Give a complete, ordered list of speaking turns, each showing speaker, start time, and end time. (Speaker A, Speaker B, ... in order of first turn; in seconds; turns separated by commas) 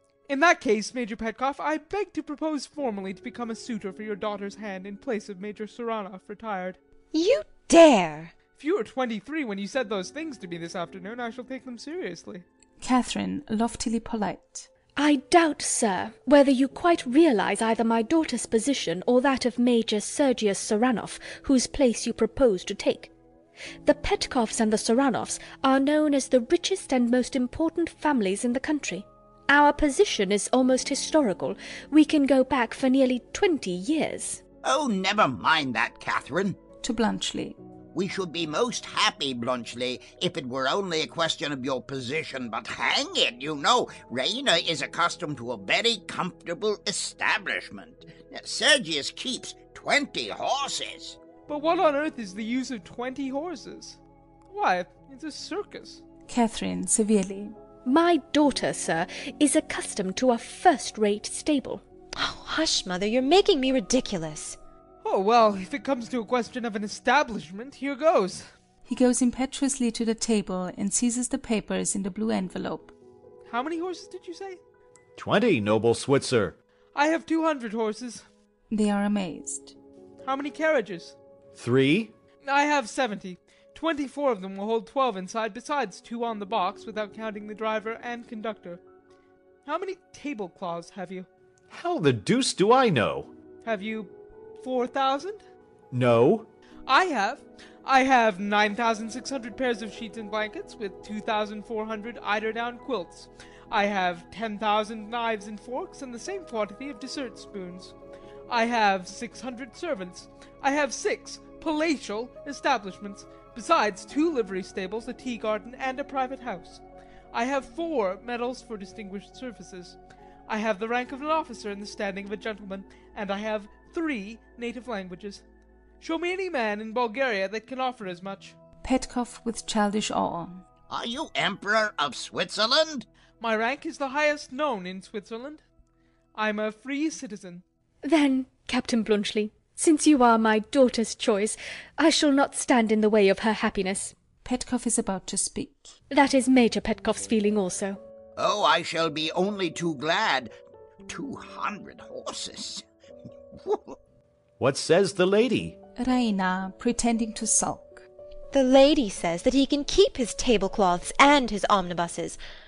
Speaker A: 0.3-6.8, Speaker B: 7.1-8.3, Speaker A: 8.6-12.4, Speaker C: 12.8-14.7, Speaker D: 14.9-23.1, Speaker D: 23.8-34.4, Speaker E: 34.6-36.6, Speaker C: 36.8-37.6, Speaker E: 37.9-51.2, Speaker A: 51.5-54.0, Speaker A: 54.5-56.0, Speaker C: 56.3-57.5, Speaker D: 57.9-61.8, Speaker B: 62.1-64.6, Speaker A: 65.0-68.5, Speaker C: 68.8-72.9, Speaker A: 73.5-74.6, Speaker F: 75.2-76.6, Speaker A: 76.9-78.2, Speaker C: 78.7-79.7, Speaker A: 80.2-81.2, Speaker F: 81.5-82.1, Speaker A: 82.4-88.8, Speaker A: 89.7-91.3, Speaker F: 91.7-93.3, Speaker A: 93.6-95.4, Speaker F: 95.9-96.5, Speaker A: 96.9-107.9, Speaker A: 108.5-116.8, Speaker A: 117.3-120.0, Speaker A: 120.5-125.4, Speaker A: 126.0-128.5, Speaker C: 128.8-130.6, Speaker E: 130.9-133.1, Speaker A: 133.4-135.6, Speaker A: 136.3-137.6, Speaker D: 138.0-144.1, Speaker C: 144.4-145.9, Speaker D: 146.1-148.0, Speaker E: 148.4-150.5, Speaker E: 151.1-152.8, Speaker E: 153.6-154.0, Speaker F: 154.6-155.8, Speaker C: 156.0-158.1, Speaker B: 158.5-162.4